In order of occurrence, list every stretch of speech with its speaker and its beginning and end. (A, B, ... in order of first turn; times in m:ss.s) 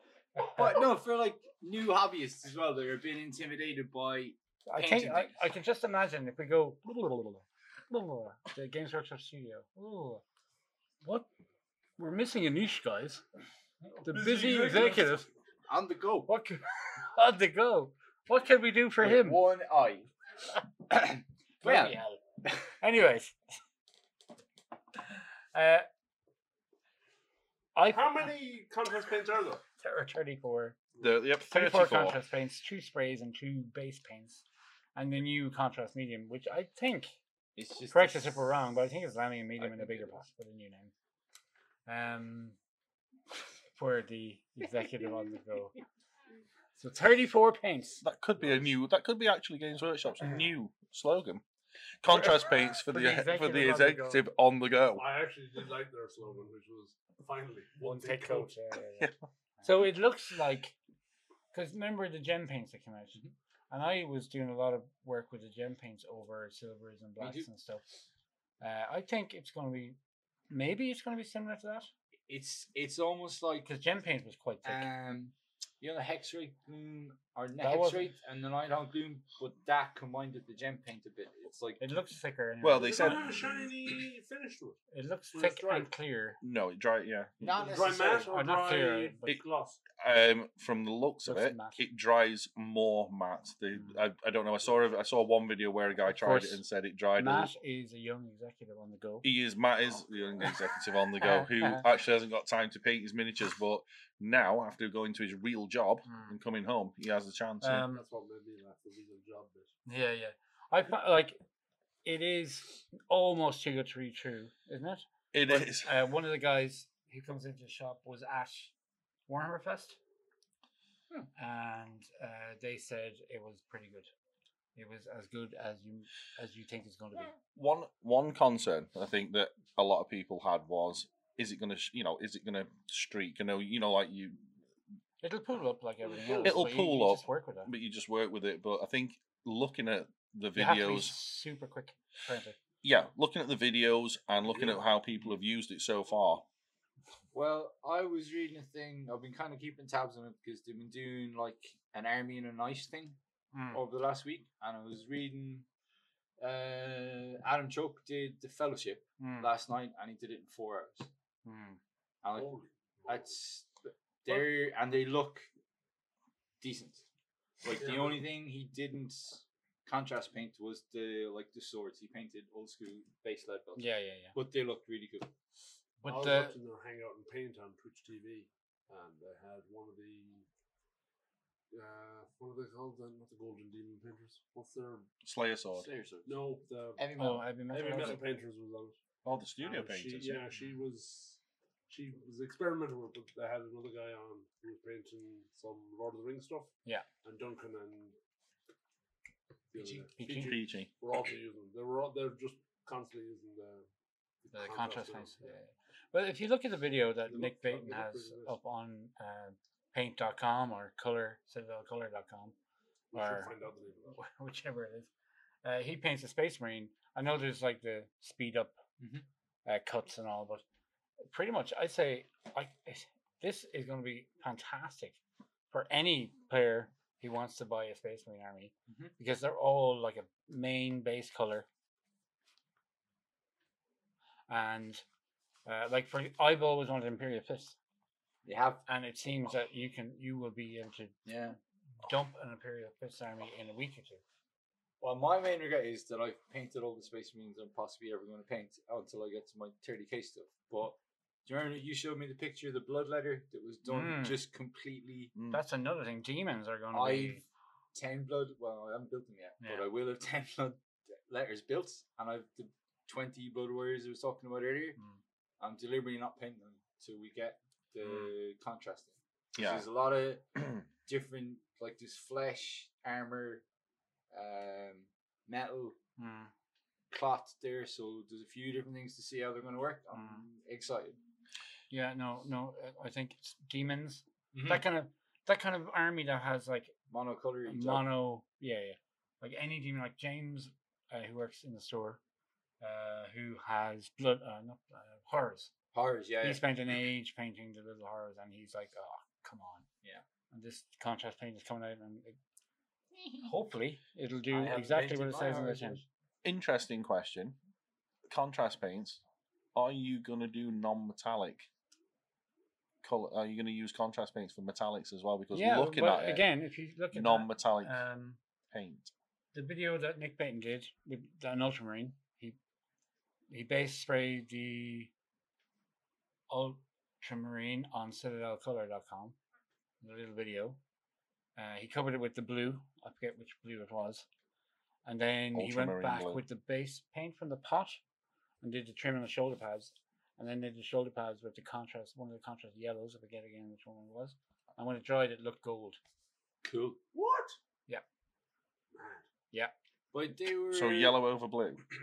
0:00.4-0:00.8 A
0:00.4-0:05.4 B
0:04.7-0:10.2 A
0:11.0-0:11.3 A
0:12.0-0:13.2 A
0:13.8-0:15.3 A
0:14.1-0:15.2 C
0:15.7-0:16.3 B
0:16.3-0:19.4 A
0:19.0-0:20.1 B
0:20.9-0:22.6 B
0:21.6-0:23.4 A
0:25.1-0:25.9 A
0:27.7-0:28.3 A
0:27.9-0:29.6 C
0:29.8-0:30.8 A
0:31.0-0:32.2 D
0:31.4-0:34.4 A
0:34.9-0:37.1 A
0:37.6-0:38.5 B
0:37.9-0:40.9 A
0:39.6-0:40.2 B
0:41.8-0:42.6 A
0:43.7-0:45.7 A
0:46.8-0:48.0 A
0:48.0-0:51.4 D
0:48.4-0:48.7 C
0:52.0-0:55.0 D
0:52.1-0:54.2 A
0:54.9-0:58.5 C
0:57.8-1:00.8 A
1:01.5-1:07.8 A
1:07.2-1:07.5 B
1:08.6-1:10.0 A
1:10.5-1:11.9 A
1:12.3-1:13.7 B
1:13.6-1:14.9 A
1:14.6-1:21.8 B
1:17.6-1:18.1 A
1:21.8-1:23.2 A
1:22.6-1:23.4 D
1:22.8-1:24.8 C
1:24.9-1:26.4 A
1:25.3-1:25.9 C
1:26.4-1:27.5 D
1:27.4-1:28.3 B
1:27.6-1:29.8 C
1:28.3-1:29.3 A
1:30.0-1:37.5 D
1:31.2-1:31.8 A
1:36.0-1:36.6 A
1:37.2-1:39.2 A
1:39.2-1:47.8 D
1:41.2-1:41.8 A
1:46.0-1:46.4 A
1:47.6-1:48.0 A
1:47.9-1:49.7 C
1:49.8-1:51.4 A
1:52.0-1:58.7 A
1:55.3-1:55.9 D
1:59.3-2:00.0 A
2:01.4-2:04.1 A
2:04.7-2:07.3 A
2:07.5-2:14.4 D
2:15.2-2:17.7 A
2:16.4-2:21.1 D
2:20.6-2:22.6 A
2:22.8-2:26.4 D
2:27.3-2:33.2 B
2:33.5-2:33.8 A
2:33.7-2:35.6 B
2:36.4-2:41.1 B
2:39.2-2:39.5 A
2:41.4-2:41.8 A
2:42.2-2:42.5 B
2:42.3-2:43.3 C
2:43.1-2:45.5 B
2:46.6-2:47.0 B
2:47.6-2:55.3 B
2:47.7-2:48.2 C
2:53.8-2:54.4 A
2:56.0-2:56.5 A
2:56.1-3:00.4 C
3:01.7-3:05.1 C
3:05.2-3:05.9 D
3:05.8-3:06.4 B
3:06.2-3:07.0 C
3:07.0-3:08.1 B
3:07.2-3:08.2 A
3:07.7-3:09.0 C
3:09.2-3:10.4 D
3:09.6-3:18.2 C
3:19.7-3:23.9 C
3:19.8-3:20.0 B
3:20.1-3:20.6 A
3:20.3-3:20.9 D
3:24.4-3:25.6 C
3:24.5-3:32.5 A
3:27.3-3:28.6 C
3:33.1-3:34.2 C
3:33.1-3:33.5 A
3:34.1-3:35.1 A
3:35.6-3:38.8 A
3:39.0-3:39.2 B
3:39.6-3:40.6 A
3:41.2-3:45.2 A
3:45.7-3:51.7 A
3:48.9-3:49.1 B
3:54.5-3:55.0 A
3:55.6-3:57.8 A
3:58.4-3:58.8 B
3:58.9-4:01.2 A
4:01.2-4:01.6 B
4:02.0-4:04.2 A
4:05.0-4:15.3 B
4:13.8-4:14.4 A
4:15.3-4:15.6 D
4:15.5-4:17.4 A
4:16.9-4:17.4 B
4:17.9-4:25.0 B
4:19.6-4:19.9 A
4:25.6-4:33.6 B
4:29.6-4:29.8 D
4:34.3-4:36.0 B
4:36.2-4:36.5 A
4:37.1-4:41.2 B
4:40.1-4:40.4 A
4:41.9-4:46.9 A
4:44.5-4:44.8 B
4:47.1-4:48.0 B
4:47.7-4:52.2 A
4:52.8-4:55.7 A
4:55.9-4:56.6 B
4:56.4-4:59.8 A
5:00.5-5:02.4 A
5:03.1-5:03.5 B
5:03.4-5:06.0 A
5:04.5-5:06.0 B
5:06.4-5:07.6 D
5:08.3-5:09.2 D
5:09.7-5:11.7 D
5:13.0-5:16.4 D
5:15.5-5:18.4 A
5:17.1-5:18.0 D
5:18.7-5:19.1 D
5:19.5-5:22.6 A
5:23.5-5:25.1 A
5:26.5-5:29.4 A
5:30.0-5:30.8 A
5:31.6-5:34.2 A
5:35.0-5:38.0 A
5:35.5-5:36.4 D
5:38.6-5:46.0 A
5:46.6-5:47.0 B
5:47.1-5:47.6 C
5:48.9-5:49.2 C
5:50.1-5:51.2 B
5:50.7-5:51.8 D